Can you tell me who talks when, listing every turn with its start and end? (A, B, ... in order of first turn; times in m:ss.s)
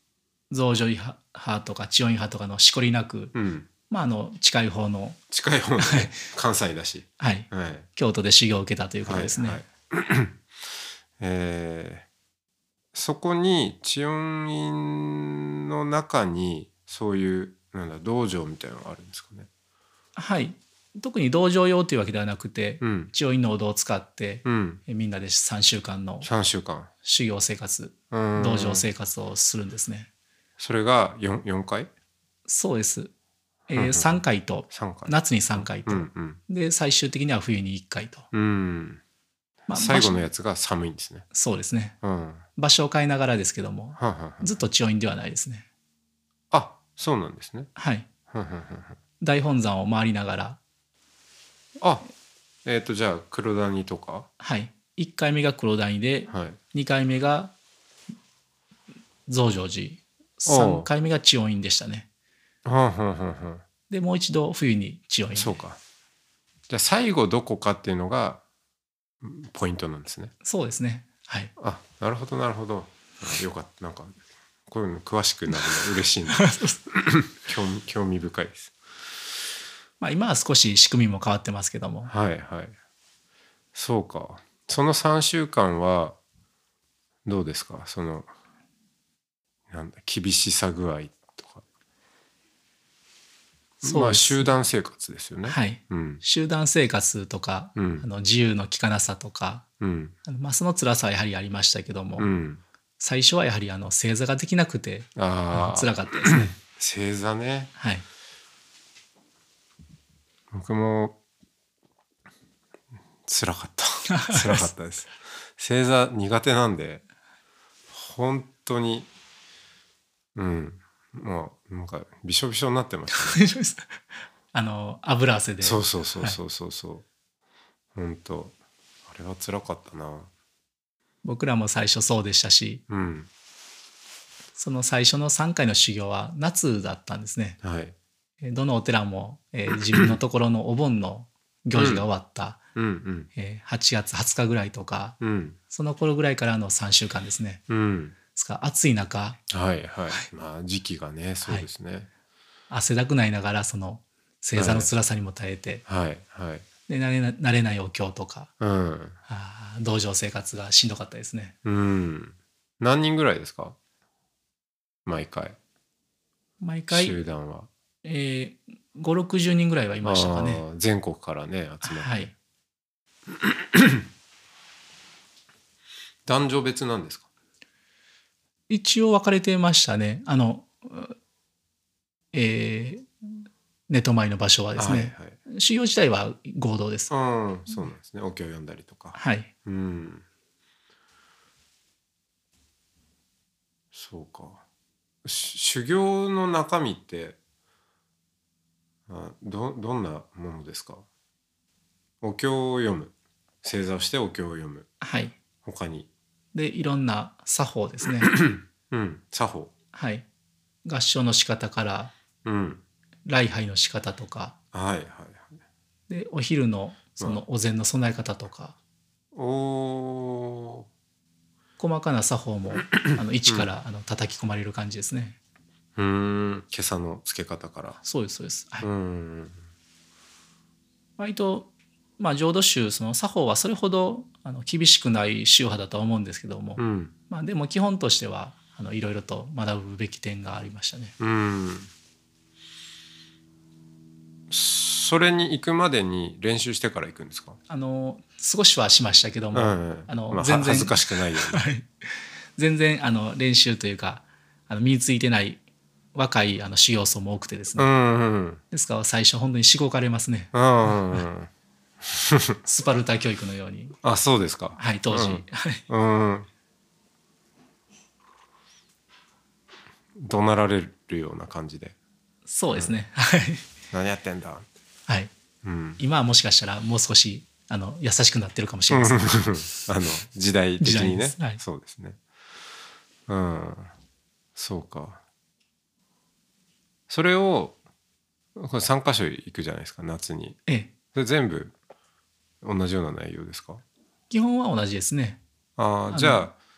0:00.5-0:03.3 A
0:03.3-0:03.7 B
0:03.9-0:05.2 A
0:05.3-0:07.9 B
0:05.8-0:06.1 A
0:07.2-0:09.6 A
0:09.0-0:10.4 B
0:11.2-0:12.0 B
0:12.9-0:19.5 B
0:20.2-0:26.3 A
0:22.8-0:23.1 B
0:24.4-0:24.8 B
0:26.2-0:26.9 B
0:27.0-0:30.1 A
0:28.1-0:28.8 B
0:30.6-0:31.9 B
0:32.4-0:33.1 A
0:33.7-0:38.3 A
0:33.7-0:36.4 B
0:38.3-0:39.0 B
0:39.7-0:40.2 A
0:39.7-0:41.2 B
0:41.3-0:42.0 A
0:42.0-0:42.4 B
0:42.6-0:45.6 A
0:44.0-0:44.6 B
0:46.5-0:47.7 B
0:47.8-0:48.1 A
0:48.3-0:49.0 B
0:49.2-0:50.6 A
0:51.8-0:52.1 B
0:52.6-0:54.3 B
0:54.4-0:57.5 A
0:56.3-0:56.6 B
0:59.3-1:02.1 A
1:00.4-1:00.9 B
1:02.6-1:03.6 B
1:03.9-1:05.6 A
1:05.3-1:05.8 B
1:06.7-1:08.4 B
1:09.2-1:10.3 B
1:10.4-1:11.5 A
1:11.6-1:18.7 B
1:16.3-1:16.8 A
1:20.0-1:22.1 A
1:22.0-1:22.7 B
1:23.7-1:26.2 B
1:27.2-1:28.3 B
1:29.7-1:31.6 B
1:33.8-1:34.5 A
1:33.8-1:36.2 B
1:35.4-1:39.6 A
1:37.8-1:38.0 B
1:39.8-1:40.1 B
1:40.2-1:42.3 A
1:42.2-1:42.6 B
1:43.0-1:46.5 A
1:45.2-1:47.7 B
1:47.8-1:48.0 A
1:50.5-1:51.2 B
1:53.2-1:57.0 B
1:54.1-1:54.7 A
1:57.9-1:59.1 B
2:00.3-2:03.4 B
2:03.1-2:04.0 A
2:04.5-2:06.4 A
2:05.6-2:07.0 B
2:07.9-2:08.5 B
2:09.1-2:10.3 B
2:11.2-2:12.8 A
2:12.9-2:13.3 B
2:14.6-2:17.6 A
2:17.6-2:17.9 B
2:18.4-2:22.6 A
2:21.7-2:22.1 B
2:22.7-2:23.3 B
2:23.3-2:25.2 A
2:25.2-2:25.6 B
2:25.7-2:27.6 A
2:27.7-2:28.2 B
2:28.3-2:29.4 A
2:29.5-2:32.1 B
2:32.7-2:35.8 A
2:34.6-2:34.9 B
2:35.9-2:36.7 B
2:36.9-2:38.5 A
2:38.6-2:39.2 B
2:39.3-2:41.6 A
2:41.6-2:43.8 B
2:45.0-2:45.6 B
2:46.6-2:47.2 A
2:46.9-2:47.7 B
2:48.0-2:50.6 A
2:50.0-2:52.3 B
2:51.8-2:52.3 A
2:53.4-2:54.0 B
2:56.2-2:57.3 B
2:58.7-3:01.1 A
3:02.3-3:03.1 A
3:03.9-3:07.1 A
3:04.8-3:05.4 B
3:07.1-3:10.2 B
3:09.1-3:09.5 A
3:13.9-3:14.6 B
3:15.2-3:17.4 B
3:19.1-3:21.0 B
3:22.2-3:24.9 B
3:25.0-3:25.3 A
3:25.6-3:26.1 B
3:26.5-3:28.3 A
3:28.3-3:29.7 B
3:29.9-3:30.2 A
3:30.8-3:32.1 A
3:32.4-3:32.8 B
3:33.2-3:34.5 A
3:34.7-3:35.5 B
3:36.1-3:38.8 A
3:37.2-3:37.4 B
3:39.3-3:40.9 B
3:41.8-3:45.4 A
3:42.9-3:43.7 B
3:46.0-3:48.0 B
3:48.0-3:48.9 A
3:48.8-3:49.6 B
3:51.2-4:01.1 A
3:56.8-3:57.1 B
4:01.2-4:01.9 B
4:04.5-4:07.6 B
4:07.7-4:11.9 A
4:09.5-4:11.6 B
4:12.6-4:15.6 A
4:16.1-4:17.9 A
4:17.8-4:18.6 B
4:18.7-4:21.2 A
4:20.5-4:21.5 B
4:22.1-4:22.6 B
4:22.6-4:24.0 A
4:24.0-4:26.5 B
4:24.8-4:25.8 A
4:30.2-4:32.0 B
4:32.4-4:33.7 A
4:33.9-4:34.6 B
4:35.6-4:36.0 B
4:36.0-4:39.5 A
4:38.9-4:42.2 B
4:40.8-4:41.6 A
4:43.3-4:43.9 B
4:44.6-4:45.2 B
4:47.1-4:47.8 B
4:48.6-4:50.6 B
4:50.7-4:50.9 A
4:51.1-4:51.7 B
4:52.6-4:53.8 B
4:54.3-4:55.4 A
4:55.8-4:56.5 B
4:56.1-4:56.5 A